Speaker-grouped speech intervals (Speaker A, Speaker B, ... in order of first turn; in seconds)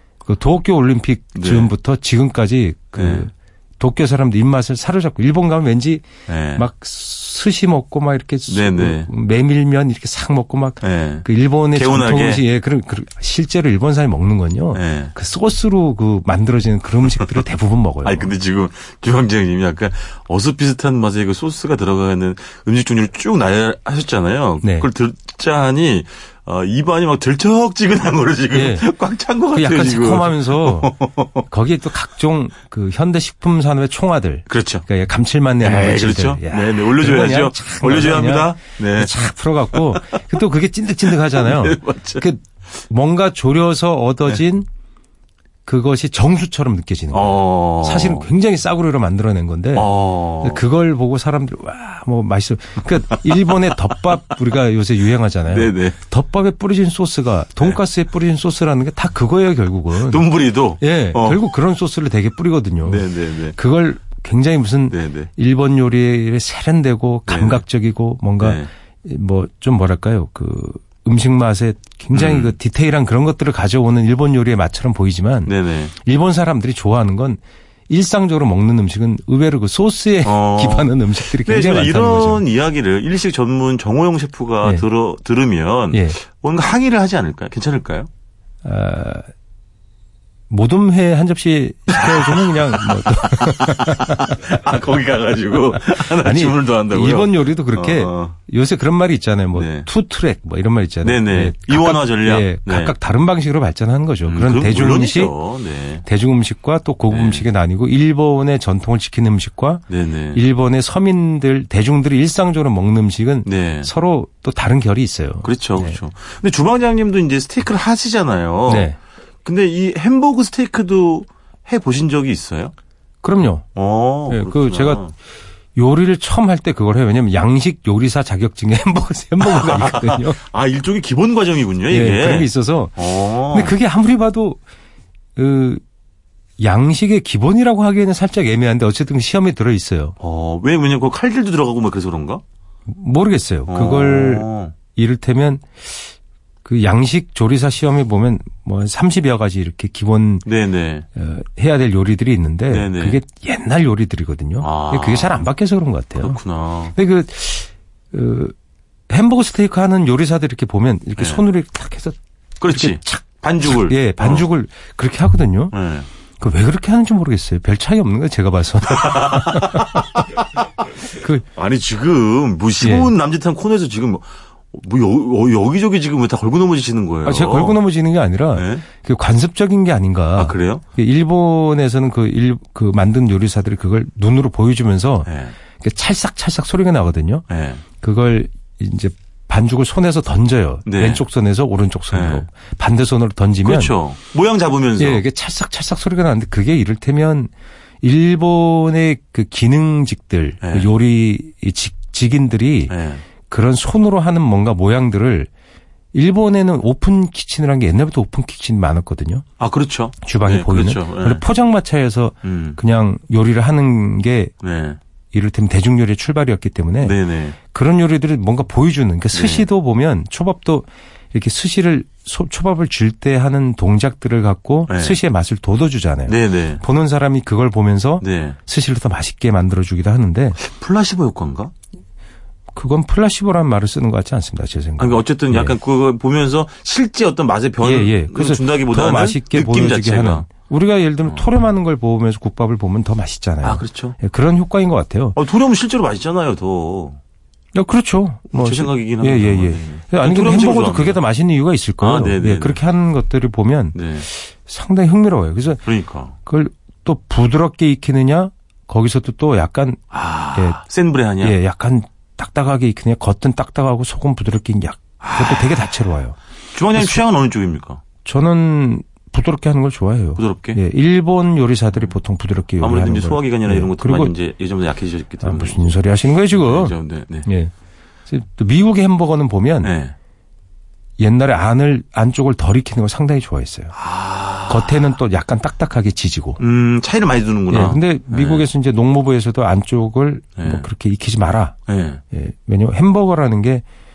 Speaker A: 0.2-6.0, 6.5-18.3, 24.6-24.9, 28.5-28.9, 29.5-30.9, 31.4-44.7, 45.6-60.2, 60.8-82.4, 85.9-86.2, 88.6-89.3, 90.5-94.4, 95.9-105.3, 106.0-116.0, 118.7-119.0, 123.2-123.7, 124.3-125.0, 125.8-130.4, 131.9-134.6, 135.3-135.8, 136.6-140.2, 142.9-146.0, 146.6-150.4, 151.2-156.4, 156.9-158.5, 159.1-162.2, 162.7-165.7, 166.4-170.2, 171.1-171.4, 172.8-173.1, 177.2-187.4, 188.0-193.9, 195.0-197.5, 198.0-202.9, 203.4-205.5, 206.1-209.4, 210.2-214.5, 215.3-217.2, 217.7-230.6, 232.7-235.7, 237.8-245.4, 247.7-255.9, 256.4-260.0, 260.5-260.8, 261.4-266.4, 266.9-267.2, 268.2-274.3, 275.4-276.9, 277.4-277.7, 278.3-279.9, 281.2-283.9, 284.7-286.6, 287.7-291.8, 292.3-293.8
Speaker B: 1.3-1.7, 3.0-3.3, 6.3-6.6, 8.5-9.1, 10.8-12.4, 14.7-15.1, 18.0-31.4, 34.5-34.8, 35.6-39.1, 39.8-40.2, 41.3-42.2, 47.1-48.3, 49.7-50.6, 55.5-56.0, 59.9-61.4, 62.8-63.5, 64.9-65.3, 67.3-67.6, 68.4-68.7, 72.1-72.5, 75.5-75.9, 80.2-88.1, 92.0-98.3, 99.5-99.9, 101.0-102.9, 104.2-106.0, 107.1-107.5, 109.9-110.4, 113.4-113.9, 115.4-118.9, 119.4-122.7, 123.7-125.1, 129.4-133.7, 140.2-142.4, 143.7-144.7, 150.4-151.1, 152.7-153.2, 154.6-155.4, 156.2-156.9, 161.2-161.4, 162.6-164.5, 165.7-166.1, 168.9-170.1, 171.5-177.8, 178.5-178.8, 180.3-180.8, 185.2-185.5, 187.5-187.8, 190.8-191.2, 192.1-192.4, 193.6-195.2, 200.6-200.9, 202.9-203.2, 209.6-211.4, 212.4-212.8, 214.6-215.0, 217.0-217.6, 219.3-219.7, 224.9-225.2, 226.3-226.8, 228.2-228.6, 230.6-231.7, 235.0-240.5, 243.6-244.2, 245.3-247.2, 248.5-251.2, 252.0-252.8, 253.9-254.3, 255.8-256.3, 260.1-261.6, 265.2-265.9, 266.7-268.0, 270.4-270.8, 272.8-276.0, 276.5-277.5, 279.8-280.1, 283.9-285.0, 286.6-288.6, 290.6-290.8, 291.9-292.2